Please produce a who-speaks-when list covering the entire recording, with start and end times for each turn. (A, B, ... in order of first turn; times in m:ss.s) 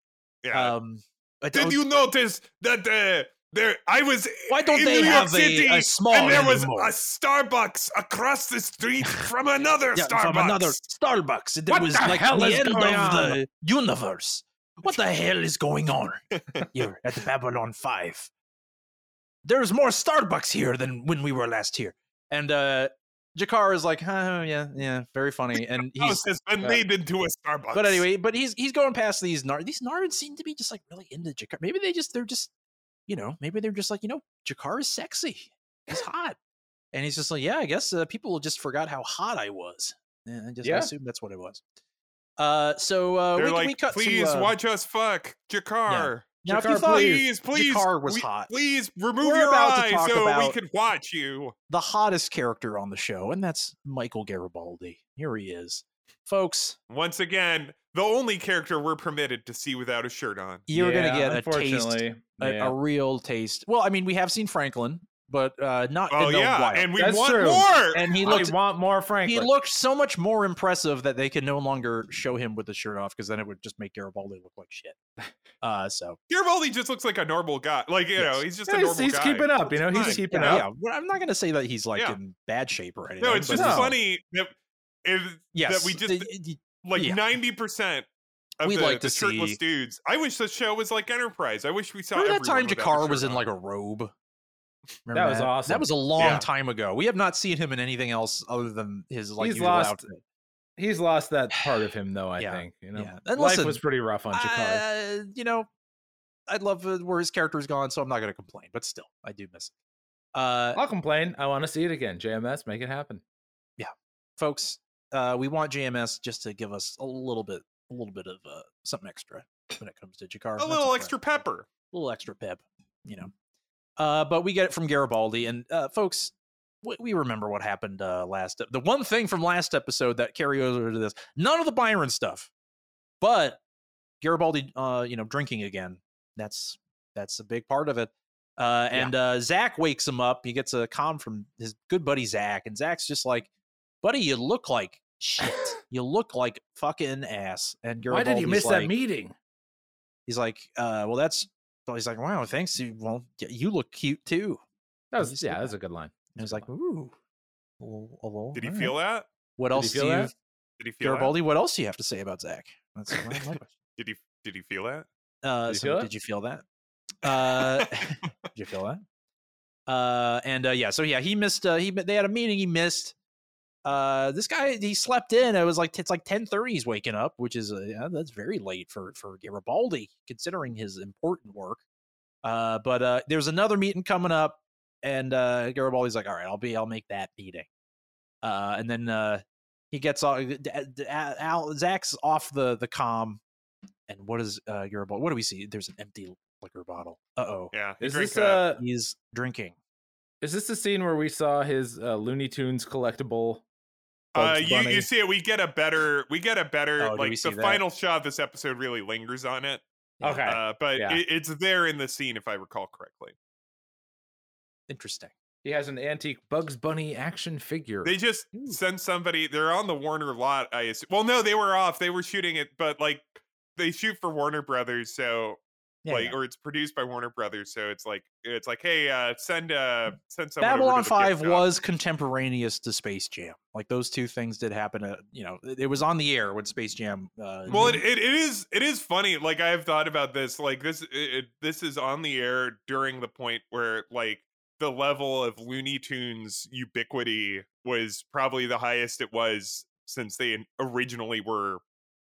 0:00.4-0:00.7 A
0:00.5-0:02.0 B
0:01.5-0:10.8 A
0:04.5-0:07.0 B
0:09.9-0:16.2 B
0:11.7-0:13.4 C
0:16.7-0:18.3 B
0:19.4-0:26.2 B
0:25.9-0:28.0 A
0:27.7-0:32.5 B
0:33.1-0:36.4 B
0:36.9-0:41.6 B
0:40.6-0:40.9 C
0:42.4-0:44.5 B
0:43.4-0:51.5 A
0:45.9-0:48.5 B
0:46.4-0:47.2 C
0:49.2-0:50.6 B
0:51.7-0:56.8 B
0:56.9-1:00.6 A
1:00.7-1:06.9 B
1:00.7-1:02.8 C
1:06.1-1:08.4 A
1:07.0-1:09.5 C
1:07.9-1:08.6 B
1:09.2-1:15.0 B
1:15.6-1:16.2 B
1:16.3-1:20.6 A
1:18.2-1:18.4 B
1:18.7-1:20.7 C
1:20.0-1:24.0 B
1:23.2-1:24.5 A
1:23.5-1:23.9 C
1:25.0-1:26.3 A
1:25.5-1:27.2 B
1:26.8-1:28.1 A
1:28.6-1:33.4 A
1:28.6-1:29.6 B
1:32.1-1:34.1 B
1:35.0-1:40.2 B
1:35.1-1:35.9 C
1:36.2-1:36.5 A
1:39.4-1:40.0 C
1:40.8-1:44.8 C
1:42.4-1:45.7 B
1:46.5-1:49.7 B
1:50.3-1:50.8 B
1:50.7-1:53.2 C
1:53.8-2:01.1 B
2:00.6-2:01.7 A
2:01.9-2:03.3 B
2:04.0-2:12.5 B
2:13.2-2:13.6 B
2:14.2-2:23.5 B
2:24.0-2:28.9 B
2:28.1-2:29.3 C
2:30.3-2:34.6 B
2:35.1-2:36.7 C
2:35.2-2:35.7 B
2:36.4-2:37.1 B
2:37.8-2:39.0 B
2:38.5-2:39.2 A
2:39.6-2:40.3 B
2:39.7-2:40.3 C
2:40.8-2:41.3 A
2:41.0-2:43.7 B
2:44.0-2:45.1 A
2:45.4-2:46.6 B
2:45.7-2:46.1 C
2:47.2-2:49.0 B
2:47.2-2:47.9 A
2:49.9-2:53.1 B
2:53.8-3:01.8 B
3:02.4-3:07.7 B
3:08.4-3:13.4 B
3:14.1-3:17.7 B
3:17.7-3:18.6 A
3:18.0-3:18.8 C
3:18.7-3:19.8 B
3:20.4-3:23.6 C
3:24.3-3:29.8 A
3:24.4-3:25.0 B
3:27.0-3:27.8 B
3:30.2-3:30.4 B
3:30.2-3:31.2 C
3:30.4-3:33.3 A
3:34.9-3:35.3 B
3:35.6-3:38.1 C
3:38.0-3:51.7 A
3:38.5-3:38.8 B
3:46.0-3:46.4 B
3:50.6-3:58.0 B
3:57.7-4:11.8 A